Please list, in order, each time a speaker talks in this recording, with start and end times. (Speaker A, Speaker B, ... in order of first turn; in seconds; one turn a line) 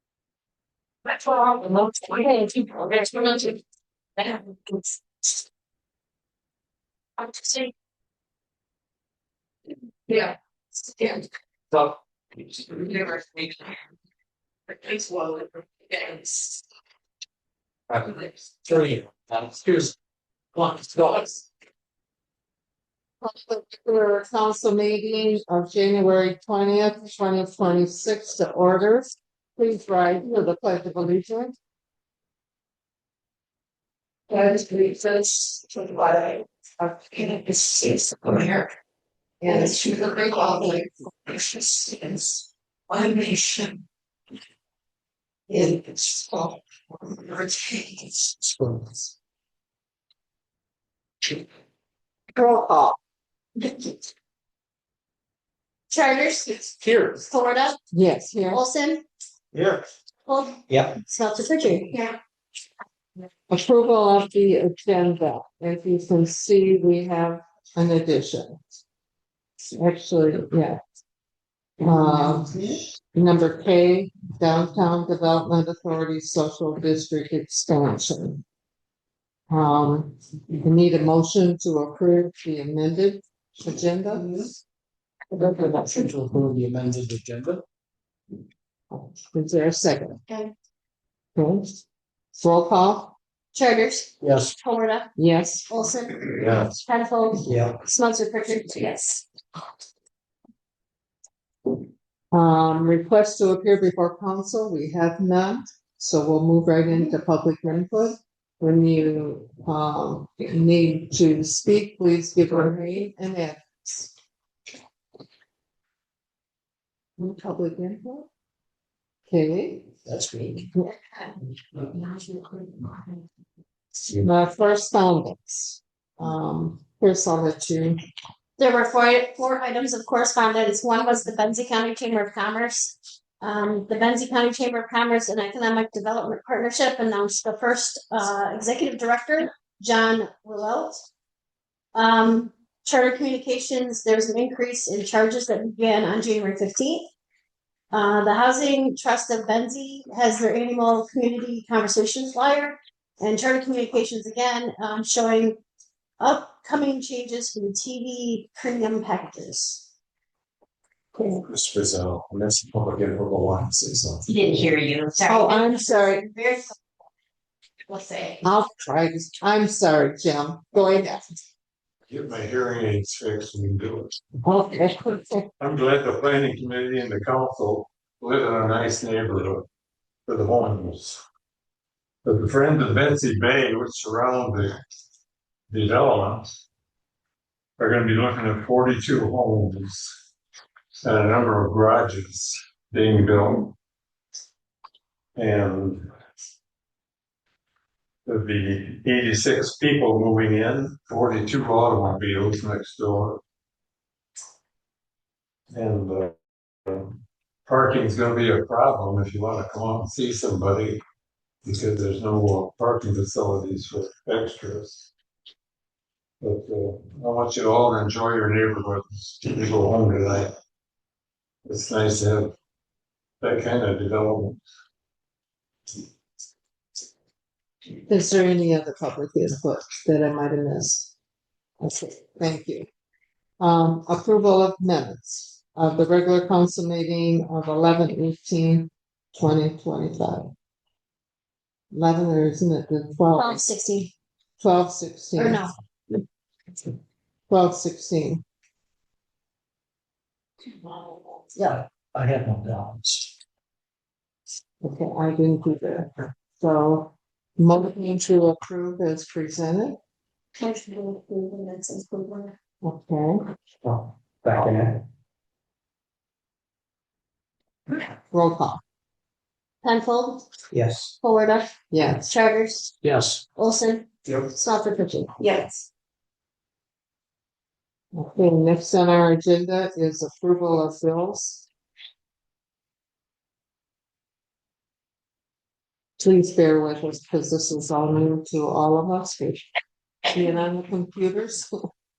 Speaker A: 1.1-3.6
Speaker A: 4.2-4.9
Speaker A: 7.2-7.7
Speaker A: 10.1-10.3
Speaker A: 10.8-13.7
Speaker A: 14.7-16.6
Speaker B: 17.9-19.9
Speaker B: 20.6-21.4
Speaker C: 23.2-31.6
Speaker A: 34.3-38.7
Speaker C: 39.4-39.8
Speaker A: 39.5-43.8
Speaker C: 40.5-40.8
Speaker A: 45.5-48.4
Speaker B: 48.5-49.1
Speaker C: 52.4-52.8
Speaker D: 55.9-57.8
Speaker B: 56.8-57.2
Speaker C: 57.9-58.6
Speaker D: 58.5-59.0
Speaker B: 59.5-59.9
Speaker D: 60.2-62.1
Speaker B: 60.7-61.0
Speaker C: 63.5-68.6
Speaker C: 69.7-70.8
Speaker C: 71.8-78.4
Speaker C: 79.5-84.4
Speaker B: 85.3-87.6
Speaker C: 88.9-90.2
Speaker C: 91.3-91.8
Speaker C: 92.4-93.1
Speaker D: 93.5-95.1
Speaker B: 94.2-94.5
Speaker C: 95.2-95.7
Speaker D: 95.7-99.2
Speaker B: 96.4-96.7
Speaker B: 97.5-97.8
Speaker C: 102.3-114.1
Speaker C: 117.2-118.3
Speaker C: 119.3-119.9
Speaker B: 120.1-120.7
Speaker C: 124.2-128.0
Speaker D: 128.6-141.0
Speaker D: 141.9-147.1
Speaker D: 147.9-155.6
Speaker D: 156.2-159.8
Speaker B: 161.3-164.2
Speaker A: 164.2-166.0
Speaker C: 165.2-166.3
Speaker D: 165.4-166.7
Speaker A: 167.9-168.4
Speaker C: 168.4-171.4
Speaker E: 172.1-174.2
Speaker C: 174.4-175.5
Speaker E: 175.6-179.7
Speaker E: 180.3-181.2
Speaker E: 182.2-184.8
Speaker E: 185.7-186.6
Speaker E: 187.8-190.1
Speaker E: 191.0-193.8
Speaker E: 195.3-196.1
Speaker E: 198.2-203.4
Speaker E: 205.7-206.3
Speaker E: 206.9-211.0
Speaker E: 211.6-215.1
Speaker E: 216.4-220.6
Speaker E: 221.7-222.5
Speaker E: 223.4-224.6
Speaker C: 228.1-231.1
Speaker C: 231.8-232.9
Speaker C: 233.6-240.5
Speaker C: 241.9-243.6
Speaker D: 243.3-244.1
Speaker C: 244.6-245.6
Speaker D: 245.4-245.8
Speaker C: 247.5-248.4
Speaker D: 251.6-251.8
Speaker B: 251.7-253.3
Speaker C: 254.8-260.0
Speaker A: 260.6-262.4
Speaker C: 262.8-263.4
Speaker B: 263.8-265.0
Speaker C: 268.3-268.8
Speaker D: 269.8-270.5
Speaker B: 270.7-271.1
Speaker D: 271.2-272.9
Speaker C: 271.9-272.3
Speaker B: 273.0-273.4
Speaker D: 273.6-275.9
Speaker C: 278.1-281.6
Speaker C: 286.2-289.6
Speaker C: 290.3-291.9